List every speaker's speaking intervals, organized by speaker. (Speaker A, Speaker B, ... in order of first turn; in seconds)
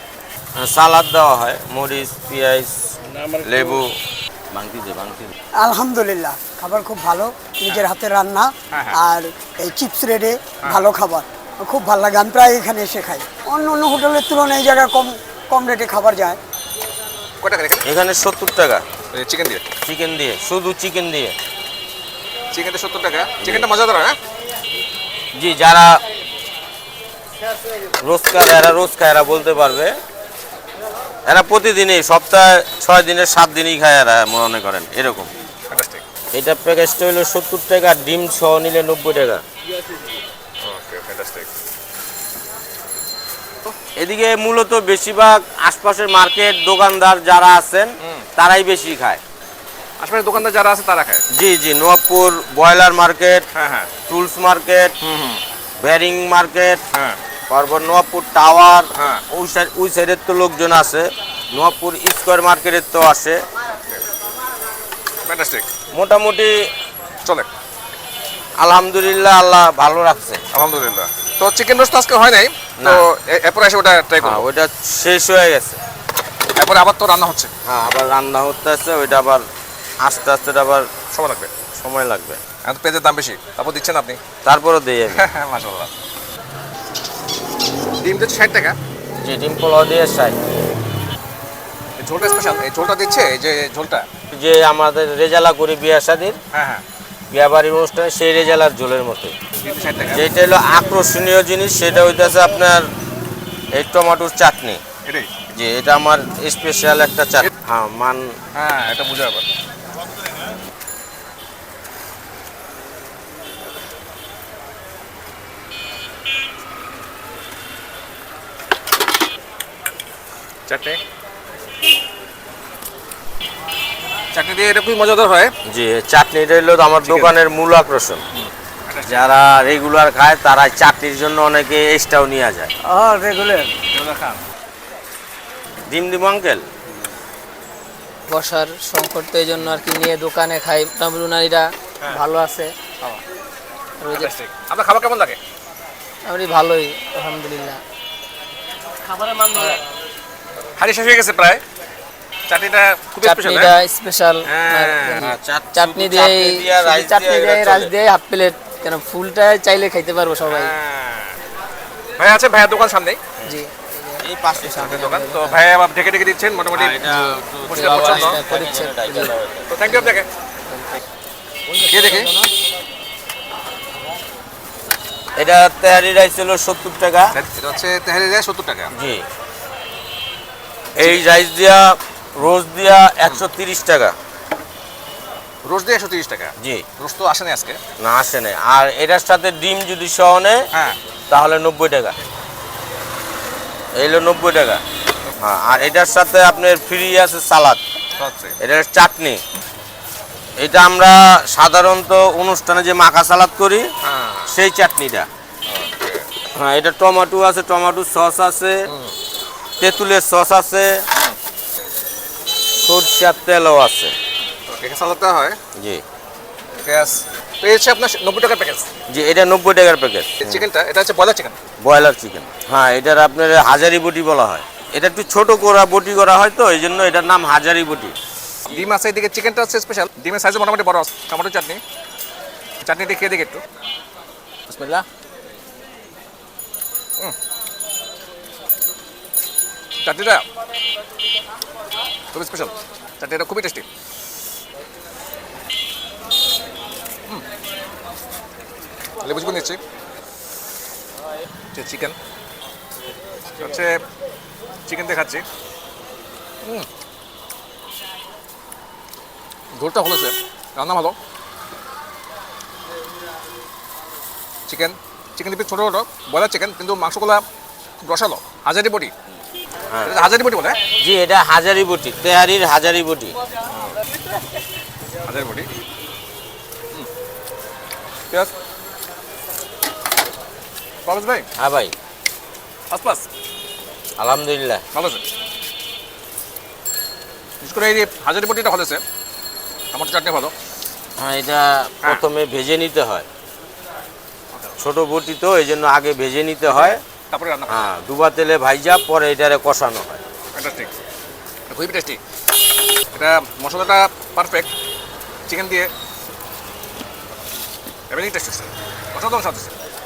Speaker A: 0.6-4.0, 4.5-5.3, 17.8-18.8, 19.8-21.4, 23.4-23.7, 25.3-26.0, 28.0-29.9, 31.3-35.3, 36.3-39.4, 44.0-49.2, 51.3-53.5, 54.1-54.9, 55.8-56.8, 57.5-63.4, 65.9-66.7, 68.6-70.4, 72.8-73.0, 74.2-75.8, 77.6-79.4, 80.0-80.9, 81.7-82.4, 84.4-85.2, 89.2-90.4, 94.3-96.4, 97.3-99.3, 100.1-102.9, 103.7-104.8, 105.5-108.3, 125.7-128.2, 129.1-132.7, 135.9-136.6, 155.1-157.9, 164.2-164.9, 166.7-169.8, 175.4-177.4, 178.9-179.2, 180.9-184.2, 186.6-186.8, 188.0-190.7, 191.3-192.2, 193.9-194.8, 195.4-197.8, 198.6-199.4, 200.6-203.9, 204.5-205.3, 206.5-208.9, 209.8-211.0, 212.8-214.1, 215.8-216.0, 219.1-220.7, 221.8-228.1, 269.9-270.1, 271.0-273.4, 281.6-281.9, 284.2-284.8, 291.2-293.2, 294.8-297.0, 297.7-300.2
Speaker B: 5.6-16.4
Speaker C: 8.7-9.0, 17.4-17.8, 19.1-19.6, 22.5-24.2, 35.7-36.0, 40.6-41.5, 48.0-48.2, 50.0-51.2, 53.5-53.9, 55.0-55.4, 56.9-57.2, 59.0-59.2, 65.2-65.7, 70.5-74.4, 76.5-77.5, 81.1-81.5, 82.6-84.2, 85.1-85.9, 88.0-88.8, 92.0-94.1, 96.5-96.8, 99.6-100.3, 105.0-105.3, 108.5-109.4, 120.7-121.0, 124.3-125.5, 127.0-127.3, 128.3-129.3, 133.8-134.4, 144.1-145.4, 150.8-151.6, 152.5-153.7, 154.4-155.3, 160.4-161.4, 162.2-163.2, 164.6-167.0, 167.7-168.4, 169.7-170.3, 171.9-172.3, 177.3-178.9, 185.6-187.8, 190.7-191.0, 198.2-198.6, 204.0-204.5, 205.7-206.2, 208.9-209.1, 214.7-215.6, 216.8-218.9, 220.4-221.6, 228.7-231.8, 232.8-233.6, 234.7-235.0, 240.0-240.4, 242.3-243.8, 249.2-249.8, 251.7-252.2, 253.6-254.0, 254.9-255.4, 259.7-261.1, 264.7-267.4, 268.0-269.1, 270.0-270.8, 273.7-273.9, 275.2-275.7, 281.1-281.4, 282.9-283.2, 284.9-285.2, 287.6-289.0, 289.9-290.5, 296.7-297.9, 300.5-300.9, 301.7-302.2, 303.1-304.7, 305.5-305.9, 308.1-309.7
Speaker D: 132.8-133.7, 138.3-142.7, 144.0-144.3, 146.2-147.8, 153.2-160.8, 163.4-165.6, 167.6-169.4, 171.9-172.5